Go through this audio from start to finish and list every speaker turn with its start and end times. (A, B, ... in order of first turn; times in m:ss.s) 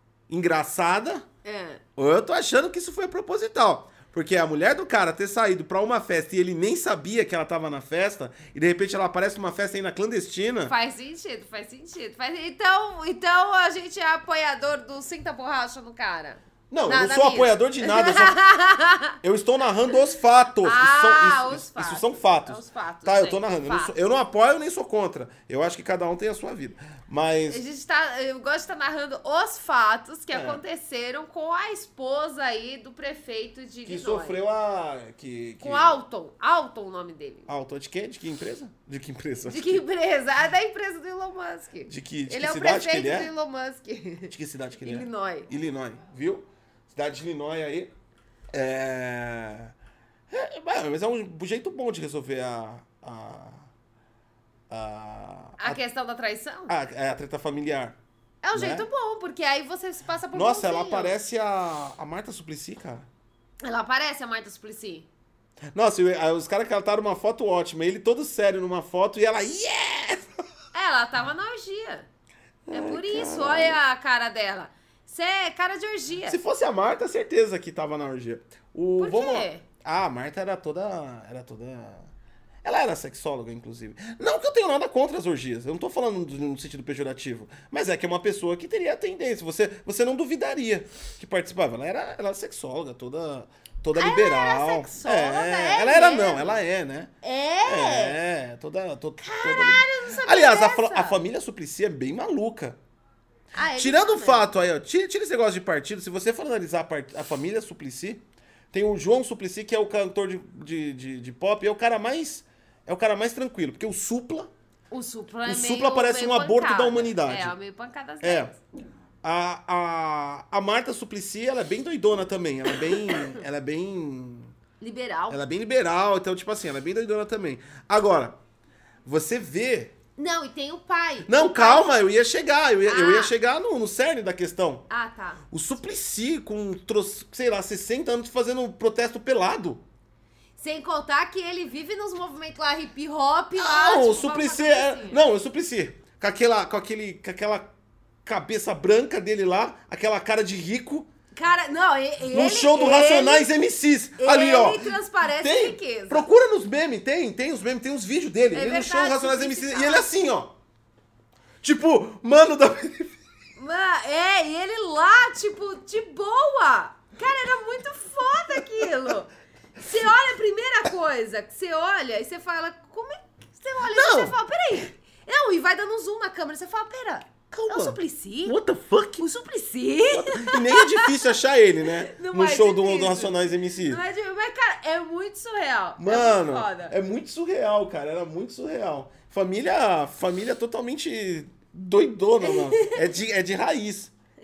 0:00.3-0:01.2 A
0:01.4-0:01.8 B
0:02.0-0:10.7 A
0:10.7-0:19.2 B
0:16.7-0:18.4 A
0:19.2-0:27.6 A
0:20.6-0:23.9 B
0:27.5-0:34.4 B
0:30.3-0:30.6 A
0:33.8-0:36.0 A
0:35.6-0:37.5 B
0:37.5-0:39.8 A
0:39.4-0:45.5 B
0:41.9-0:43.3 A
0:44.3-0:47.9 A
0:48.5-0:49.7 A
0:50.3-0:53.6 A
0:54.7-0:55.8 A
0:55.6-0:56.7 B
0:56.7-0:58.0 A
0:58.4-1:01.1 B
0:58.5-0:58.9 A
1:00.3-1:03.1 A
1:03.6-1:05.1 B
1:05.7-1:10.3 A
1:10.7-1:12.1 B
1:12.7-1:13.8 A
1:12.7-1:16.4 B
1:16.3-1:22.1 A
1:19.0-1:19.6 B
1:22.6-1:37.1 A
1:33.9-1:36.6 B
1:37.2-1:38.2 B
1:37.6-1:42.8 A
1:39.2-1:41.2 B
1:43.5-1:44.5 B
1:43.7-1:54.5 A
1:54.9-1:58.6 B
1:55.4-1:57.5 A
1:58.2-1:58.5 A
1:59.2-2:04.5 A
2:03.1-2:03.4 B
2:04.8-2:05.4 B
2:05.3-2:08.4 A
2:09.0-2:09.9 A
2:10.2-2:11.9 B
2:11.2-2:14.8 A
2:12.8-2:13.3 B
2:14.9-2:15.4 B
2:15.5-2:19.8 A
2:20.6-2:25.2 B
2:23.6-2:27.7 A
2:28.2-2:31.1 A
2:31.3-2:33.5 B
2:32.3-2:40.5 A
2:34.2-2:36.3 B
2:38.5-2:40.1 B
2:41.6-2:43.1 A
2:43.6-2:58.6 B
2:53.9-2:54.4 A
2:57.5-2:59.3 A
2:59.2-3:01.4 B
3:00.1-3:04.0 A
3:02.1-3:06.9 B
3:06.0-3:14.1 A
3:12.4-3:13.1 B